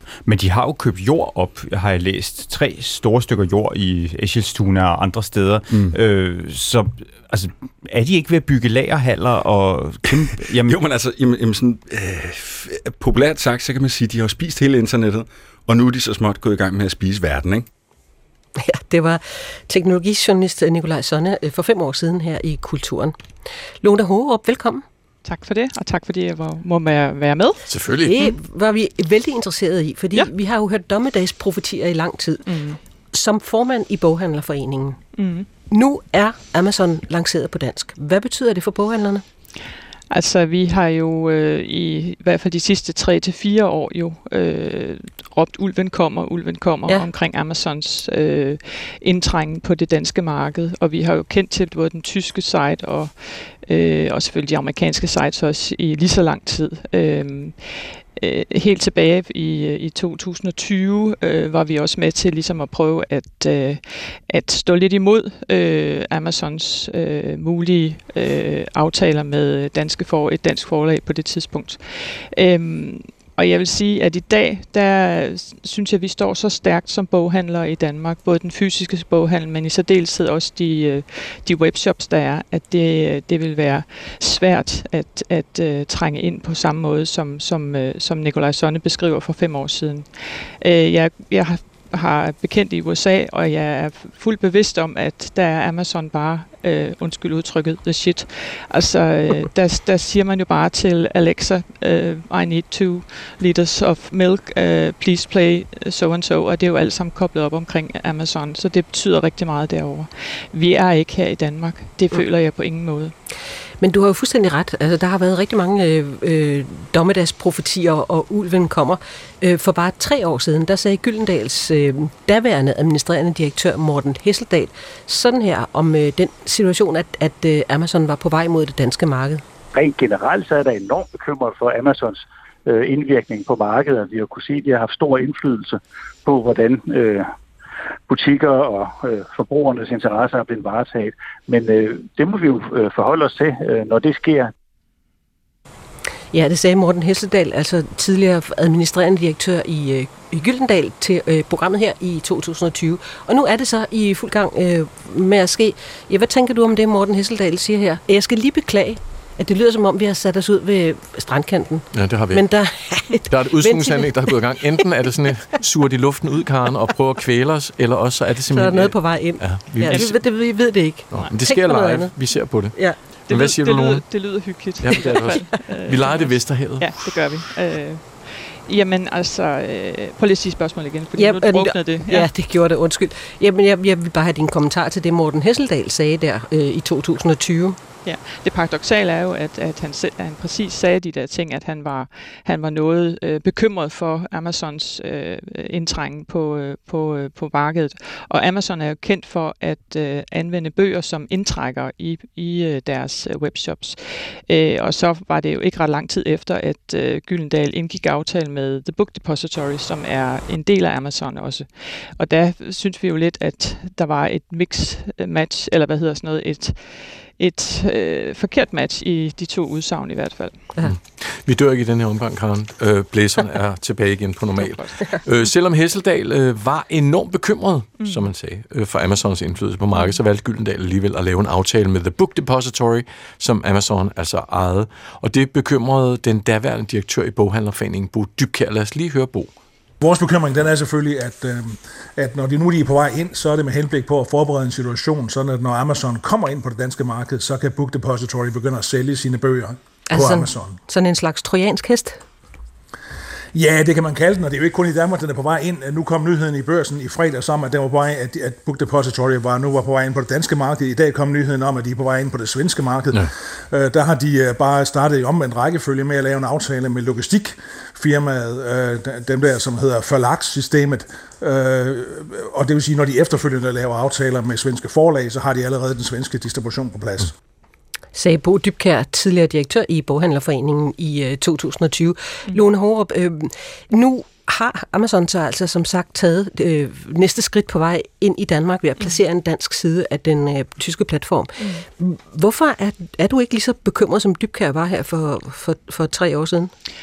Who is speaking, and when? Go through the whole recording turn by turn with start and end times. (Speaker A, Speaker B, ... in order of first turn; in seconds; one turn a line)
Speaker A: 0.2-10.8
Speaker B: 5.7-6.0
Speaker B: 10.1-17.7
Speaker C: 18.6-23.1
Speaker C: 23.8-24.8
Speaker D: 25.2-27.6
Speaker E: 27.7-28.3
Speaker C: 28.0-32.5
Speaker D: 32.5-32.8
Speaker C: 33.1-35.0
Speaker D: 35.2-35.5
Speaker C: 35.7-39.2
Speaker D: 40.1-113.1
Speaker C: 113.8-129.4
Speaker F: 129.7-137.3
Speaker F: 138.1-144.5
Speaker C: 146.3-164.4
Speaker E: 161.9-162.6
Speaker E: 163.3-170.2
Speaker C: 168.5-173.0
Speaker E: 171.1-177.2
Speaker D: 173.3-182.3
Speaker C: 181.2-187.8
Speaker D: 188.0-220.7
Speaker E: 220.8-239.5
Speaker D: 224.6-224.9
Speaker D: 228.0-228.3
Speaker G: 240.0-250.8
Speaker C: 250.1-252.2
Speaker G: 253.5-277.3
Speaker C: 278.1-296.7
Speaker D: 291.6-291.9